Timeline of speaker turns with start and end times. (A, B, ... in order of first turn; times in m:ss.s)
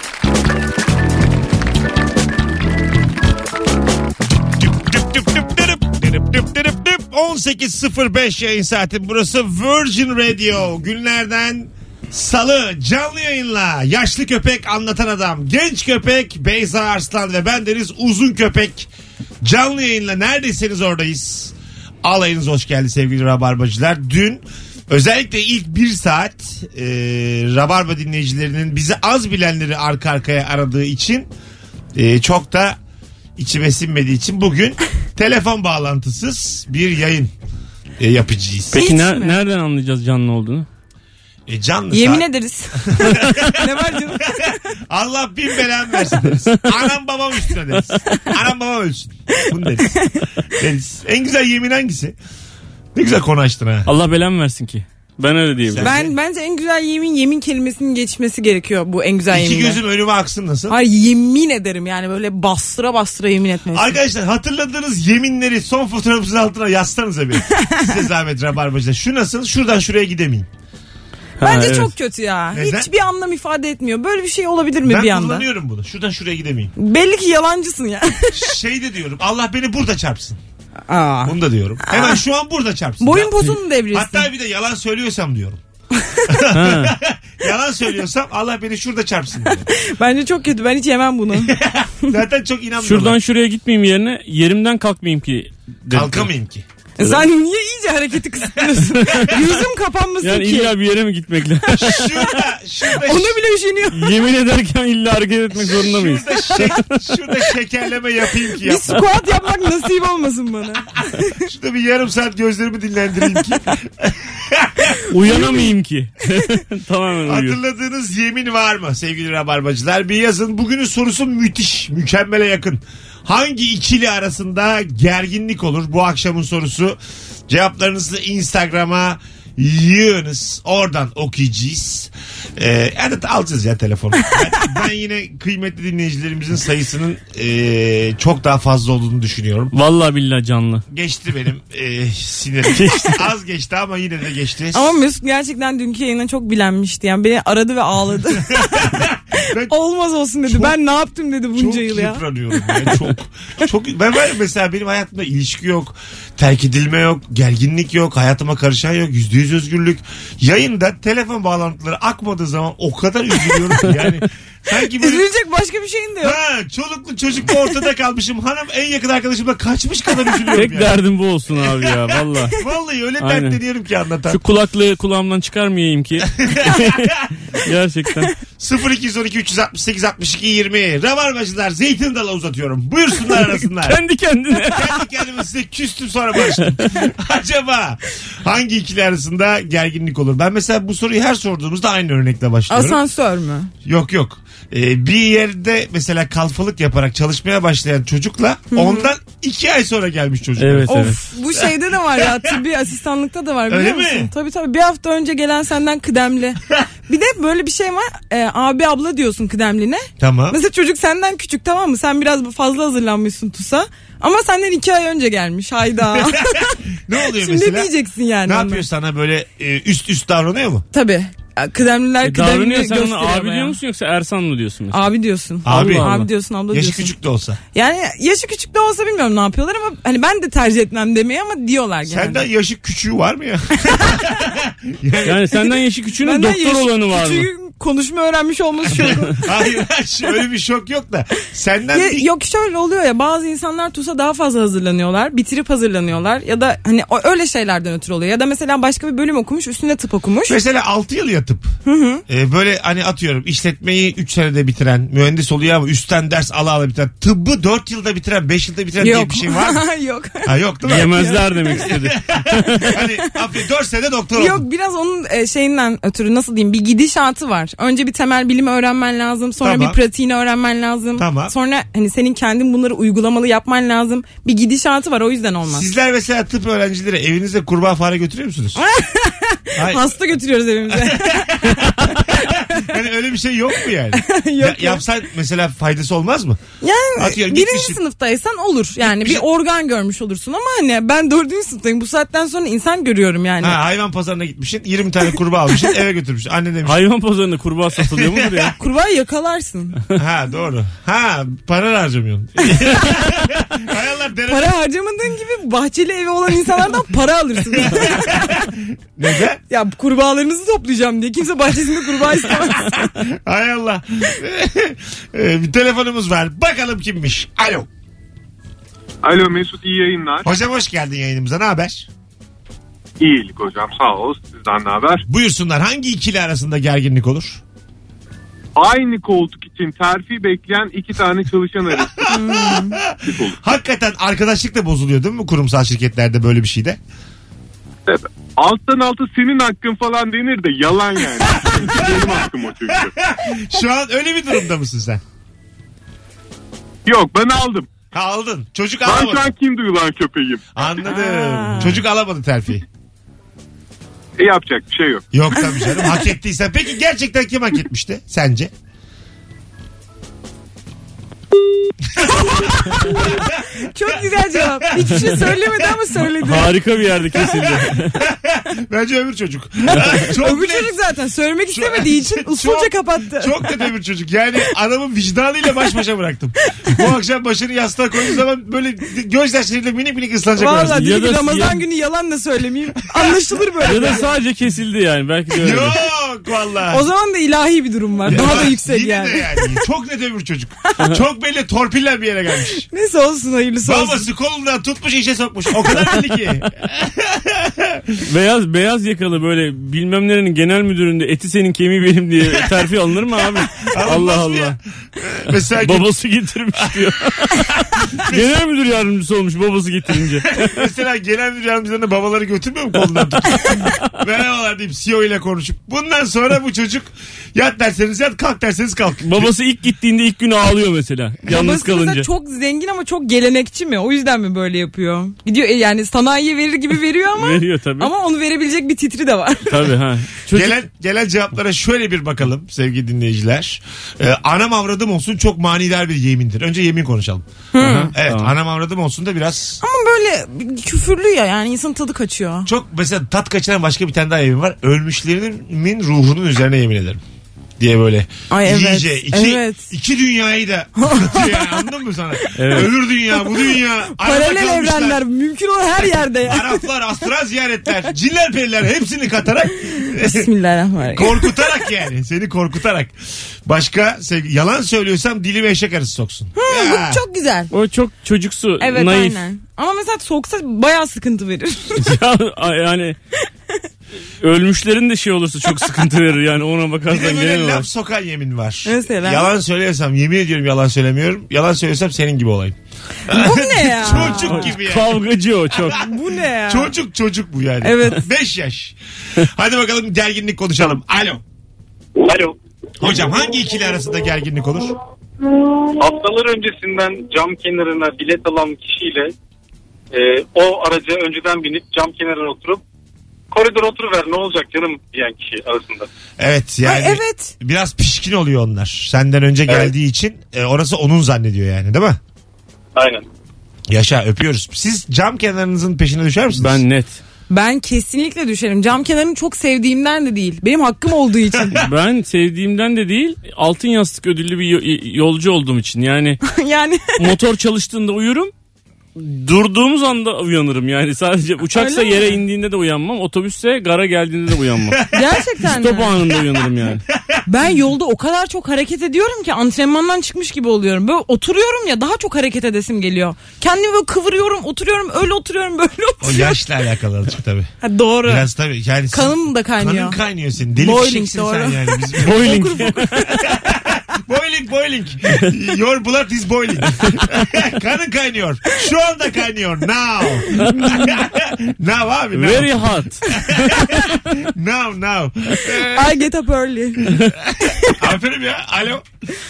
0:04.5-0:18.9 A
0:19.4-0:31.3 A
0:32.0-0:32.8 A
0:33.4-0:37.3 A
0:38.0-0:38.8 A
0:38.7-0:39.4 B
0:38.7-0:40.7 C
0:41.5-0:52.2 A
0:41.9-0:44.6 B
0:49.8-0:50.2 B
0:53.0-0:53.9 A
0:53.9-0:55.9 C
0:55.7-0:56.1 A
0:55.8-0:59.8 B
0:59.3-1:00.8 A
1:00.7-1:04.0 B
1:03.7-1:10.5 A
1:07.5-1:07.9 B
1:11.4-1:11.9 C
1:11.4-1:15.5 B
1:12.5-1:12.9 A
1:14.8-1:16.7 A
1:16.8-1:18.5 B
1:18.3-1:20.4 A
1:20.9-1:22.2 B
1:21.2-1:25.6 A
1:23.0-1:24.3 B
1:26.0-1:26.3 B
1:26.3-1:29.7 A
1:26.5-1:27.0 C
1:29.5-1:31.6 B
1:31.4-1:33.2 A
1:32.8-1:36.3 C
1:35.9-1:36.6 A
1:37.0-1:40.7 B
1:40.2-1:42.1 C
1:41.7-1:42.3 B
1:41.8-1:43.4 A
1:43.0-1:44.1 B
1:43.9-1:46.9 C
1:45.6-1:49.0 A
1:48.6-1:51.4 B
1:51.4-1:55.0 A
1:55.1-1:57.6 C
1:55.4-1:55.6 B
1:57.2-2:19.7 A
2:19.7-2:20.8 C
2:20.9-2:24.9 A
2:22.7-2:23.2 C
2:24.7-2:29.0 B
2:28.5-2:29.7 A
2:29.7-2:32.2 B
2:30.5-2:30.8 A
2:31.6-2:45.2 A
2:44.9-2:46.4 B
2:46.2-2:51.0 A
2:50.6-2:52.6 C
2:51.6-2:54.4 A
2:53.2-2:53.6 C
2:54.3-2:58.3 C
2:56.4-2:57.3 A
2:58.6-3:04.0 A
3:03.4-3:05.0 C
3:04.5-3:13.0 A
3:06.5-3:07.0 C
3:12.7-3:13.7 B
3:13.8-3:22.4 A
3:18.7-3:19.1 B
3:20.6-3:21.2 C
3:20.9-3:36.8 B
3:23.7-3:24.3 A
3:30.2-3:30.6 A
3:36.1-3:37.9 A
3:37.4-3:38.8 B
3:38.4-3:40.8 A
3:40.9-3:43.8 B
3:42.2-3:45.1 C
3:44.9-3:47.1 B
3:45.6-3:46.2 A
3:45.6-3:46.3 C
3:46.7-3:47.6 A
3:47.7-3:52.4 B
3:52.1-3:55.6 A
3:53.8-3:54.2 B
3:55.2-3:57.5 C
3:56.2-3:59.4 B
3:58.9-4:02.3 A
4:01.9-4:10.6 B
4:10.5-4:11.7 A
4:11.9-4:12.2 B
4:12.3-4:19.8 A
4:19.0-4:21.9 B
4:20.4-4:24.6 A
4:20.8-4:23.0 C
4:24.4-4:35.9 B
4:29.6-4:30.0 A
4:31.2-4:31.5 A
4:35.7-4:38.8 A
4:38.8-4:42.9 B
4:39.8-4:40.2 A
4:40.9-4:46.6 A
4:44.1-4:45.0 B
4:46.8-4:53.8 B
4:47.2-4:48.0 A
4:49.2-4:49.4 A
4:53.6-4:57.0 A
4:56.8-4:58.7 C
4:58.0-4:58.7 A
4:58.7-5:00.0 B
5:00.1-5:04.8 A
5:04.5-5:08.7 B
5:07.7-5:09.6 A
5:09.7-5:13.2 B
5:12.6-5:17.9 A
5:19.2-5:20.5 D
5:20.4-5:22.1 A
5:23.2-5:25.2 D
5:25.3-5:27.6 A
5:28.8-5:32.2 D
5:32.1-5:37.0 A
5:32.3-5:33.0 B
5:33.3-5:33.6 D
5:38.1-5:43.1 D
5:41.5-5:45.2 A
5:47.1-5:47.9 D
5:48.1-5:49.5 A
5:49.0-5:50.6 D
5:50.8-5:52.9 A
5:51.0-5:52.0 B
5:54.4-5:55.2 D
5:55.3-5:58.7 A
6:02.2-6:03.5 A
6:02.2-6:06.7 B
6:04.1-6:06.1 A
6:06.4-6:08.2 C
6:07.5-6:11.0 A
6:10.4-6:13.8 B
6:11.7-6:21.0 A
6:20.6-6:24.4 B
6:20.9-6:21.8 C
6:23.2-6:24.0 A
6:23.8-6:26.0 C
6:25.5-6:27.0 A
6:26.9-6:29.8 B
6:28.3-6:32.9 A
6:32.9-6:34.2 B
6:33.8-6:38.2 A
6:38.2-6:44.8 C
6:43.6-6:46.1 A
6:45.8-6:50.9 C
6:46.9-6:47.6 A
6:48.2-6:48.5 A
6:50.5-6:59.5 A
6:59.2-7:02.3 C
7:01.5-7:09.8 B
7:07.4-7:08.1 C
7:09.7-7:10.8 C
7:10.5-7:17.4 A
7:17.7-7:18.1 B
7:17.8-7:18.5 C
7:18.1-7:19.8 A
7:19.8-7:22.7 B
7:22.7-7:27.2 A
7:27.8-7:35.2 A
7:28.5-7:29.9 B
7:31.0-7:31.9 B
7:32.6-7:32.9 C
7:33.4-7:36.9 B
7:36.4-7:40.5 A
7:40.0-7:41.5 B
7:41.1-7:43.1 A
7:43.6-7:47.2 A
7:46.6-7:47.7 B
7:47.7-7:49.5 C
7:48.8-7:52.1 B
7:52.0-7:53.2 C
7:54.4-7:57.9 C
7:57.1-8:05.2 A
7:58.8-7:59.5 B
8:03.3-8:04.7 B
8:04.2-8:06.0 C
8:05.7-8:06.0 A
8:05.9-8:06.9 B
8:06.6-8:11.4 A
8:07.8-8:08.2 B
8:12.2-8:12.6 E
8:13.0-8:15.0 A
8:16.0-8:19.3 E
8:20.1-8:22.8 E
8:23.5-8:26.1 E
8:26.4-8:32.2 A
8:26.8-8:27.5 B
8:33.0-8:33.3 E
8:33.9-8:36.8 A
8:36.6-8:37.2 C
8:37.5-8:41.8 B
8:41.5-8:41.9 A
8:41.8-8:46.4 C
8:46.5-8:47.2 B
8:47.2-8:48.5 C
8:49.2-8:55.0 C
8:51.8-8:52.4 B
8:54.9-8:55.3 A
8:55.1-8:56.2 B
8:55.7-8:57.0 C
8:57.1-8:57.4 A
8:57.5-9:06.6 B
9:06.2-9:07.7 A
9:07.8-9:08.5 B
9:08.2-9:26.2 A
9:09.1-9:10.2 B
9:10.8-9:13.5 B
9:12.2-9:13.2 C
9:22.3-9:23.9 C
9:25.9-9:27.1 B
9:27.1-9:29.0 A
9:27.7-9:28.0 B